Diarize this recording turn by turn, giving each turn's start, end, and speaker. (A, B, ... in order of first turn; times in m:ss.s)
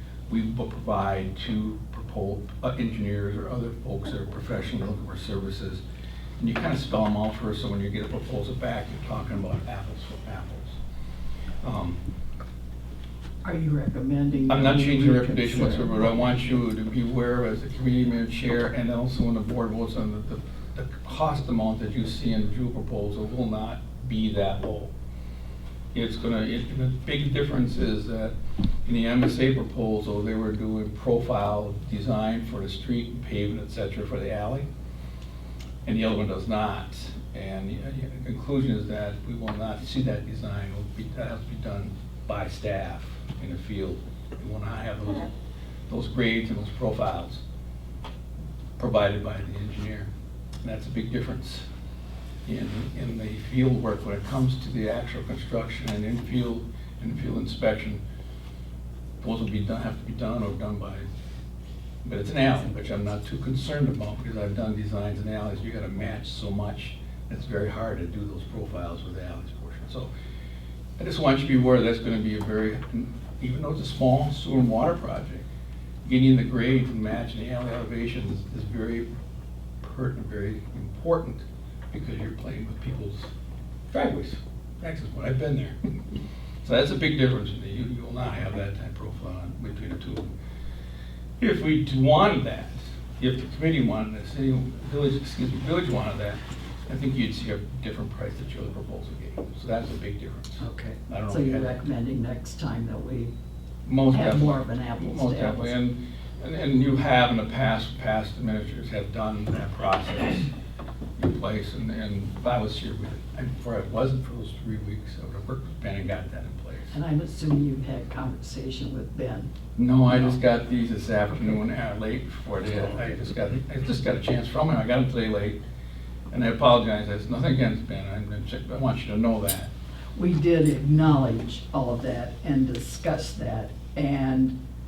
0:00.3-0:05.8 A
0:06.4-0:10.8 A
0:11.6-0:12.0 A
0:13.4-0:16.5 B
0:14.5-0:24.9 A
0:25.9-0:28.3 A
0:28.8-0:34.7 A
0:35.8-0:45.3 A
0:45.9-0:47.4 A
0:48.8-0:50.1 A
0:50.6-0:51.7 A
0:52.5-0:58.0 A
0:59.2-1:01.1 A
1:02.0-1:10.1 A
1:11.0-1:15.5 A
1:16.0-1:19.1 A
1:19.8-1:23.3 A
1:23.9-1:25.8 A
1:26.6-1:30.3 A
1:31.4-1:41.8 A
1:40.6-1:43.3 B
1:43.9-1:50.5 A
1:44.1-1:45.8 B
1:51.2-1:57.0 A
1:56.9-1:59.5 B
1:59.8-2:05.6 A
2:00.1-2:00.4 B
2:06.3-2:09.7 A
2:10.2-2:14.6 B